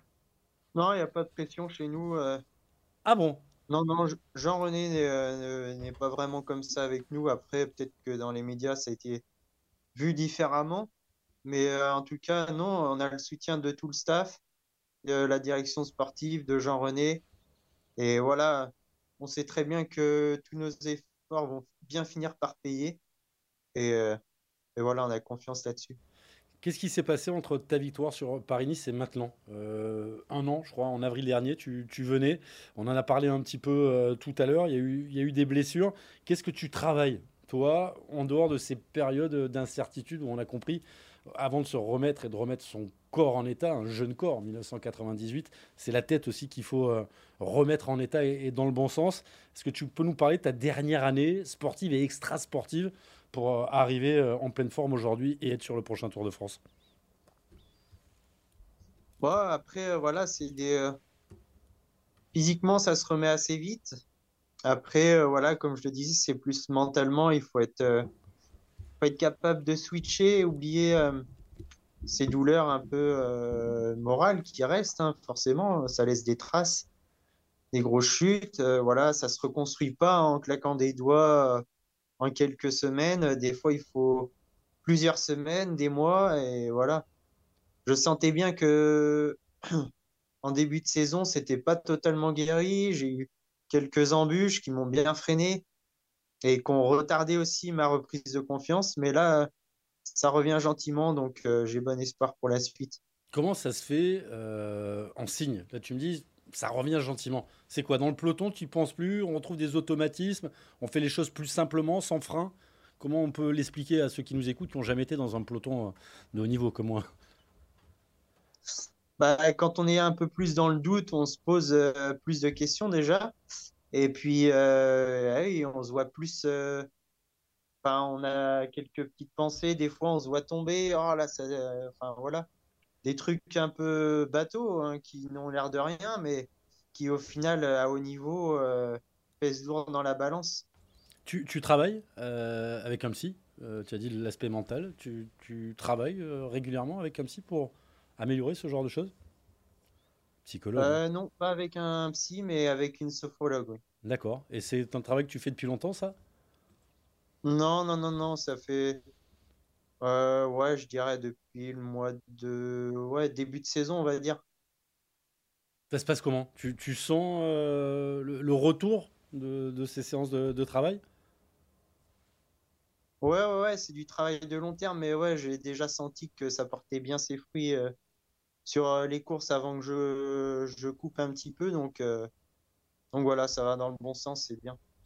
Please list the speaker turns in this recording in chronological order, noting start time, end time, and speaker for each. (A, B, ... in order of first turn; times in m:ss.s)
0:00.8-0:02.4 A
0:03.1-0:03.4 B
0:03.7-0:09.2 A
0:09.9-0:10.9 A
0:11.4-0:14.4 A
0:15.0-0:17.2 A
0:18.0-0:23.0 A
0:23.8-0:24.2 A
0:24.8-0:26.0 A
0:26.6-0:56.6 B
0:59.2-1:01.0 A
1:02.3-1:04.0 A
1:04.7-1:08.1 A
1:09.0-1:11.2 A
1:12.1-1:16.9 A
1:17.7-1:21.6 A
1:22.2-1:24.3 A
1:24.8-1:27.0 A
1:27.9-1:29.4 A
1:30.4-1:35.6 A
1:36.4-1:39.5 A
1:40.1-1:43.0 A
1:43.3-1:57.1 B
1:59.2-2:03.3 A
2:03.9-2:06.9 A
2:07.8-2:12.4 A
2:13.0-2:20.6 A
2:21.2-2:29.1 B
2:30.4-2:31.0 B
2:30.8-2:33.8 A
2:34.0-2:36.2 B
2:37.4-2:39.0 A
2:40.0-2:44.4 A
2:45.9-2:51.0 B
2:53.2-2:57.9 A
2:58.6-3:02.3 A
3:03.1-3:04.8 A